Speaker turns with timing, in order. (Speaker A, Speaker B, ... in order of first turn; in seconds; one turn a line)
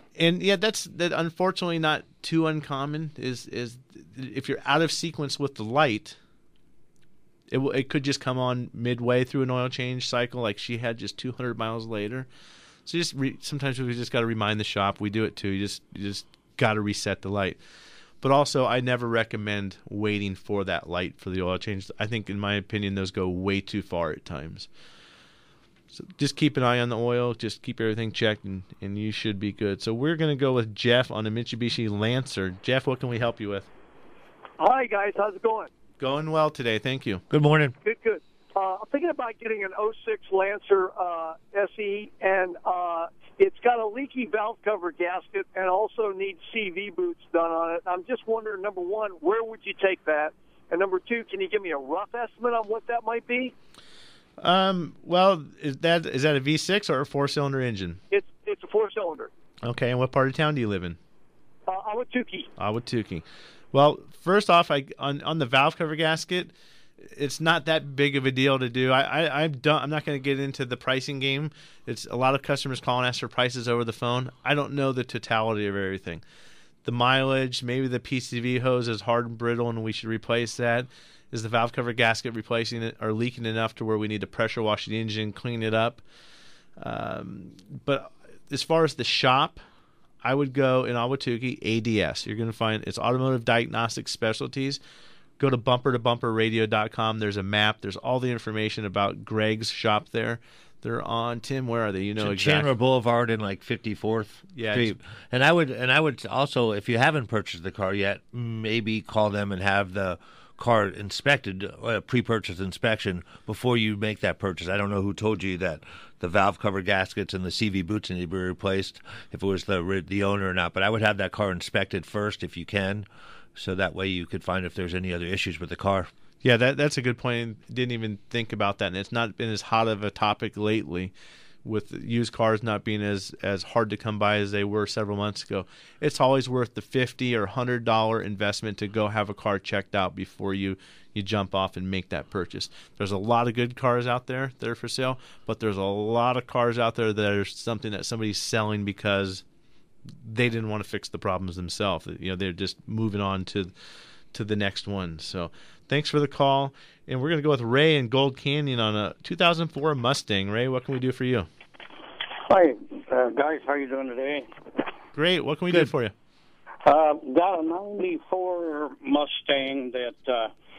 Speaker A: 0.2-6.2
Speaker A: 7.5-12.3
Speaker A: 12.8-17.6
Speaker A: 18.2-24.7
Speaker A: 25.9-33.7
Speaker B: 34.6-35.7
Speaker A: 36.0-37.2
Speaker C: 37.3-37.7
Speaker B: 37.8-53.5
Speaker A: 54.4-58.0
Speaker B: 58.1-59.3
Speaker A: 59.6-61.0
Speaker B: 61.7-62.5
Speaker A: 62.6-76.2
Speaker A: 76.8-86.0
Speaker A: 86.8-89.6
Speaker A: 90.2-94.8
Speaker A: 95.4-102.7
Speaker C: 102.2-126.1
Speaker A: 104.5-104.9
Speaker A: 126.4-131.1
Speaker A: 131.6-149.4
Speaker A: 150.2-153.7
Speaker A: 154.3-161.5
Speaker D: 162.5-164.5
Speaker A: 165.1-166.1
Speaker D: 166.8-170.5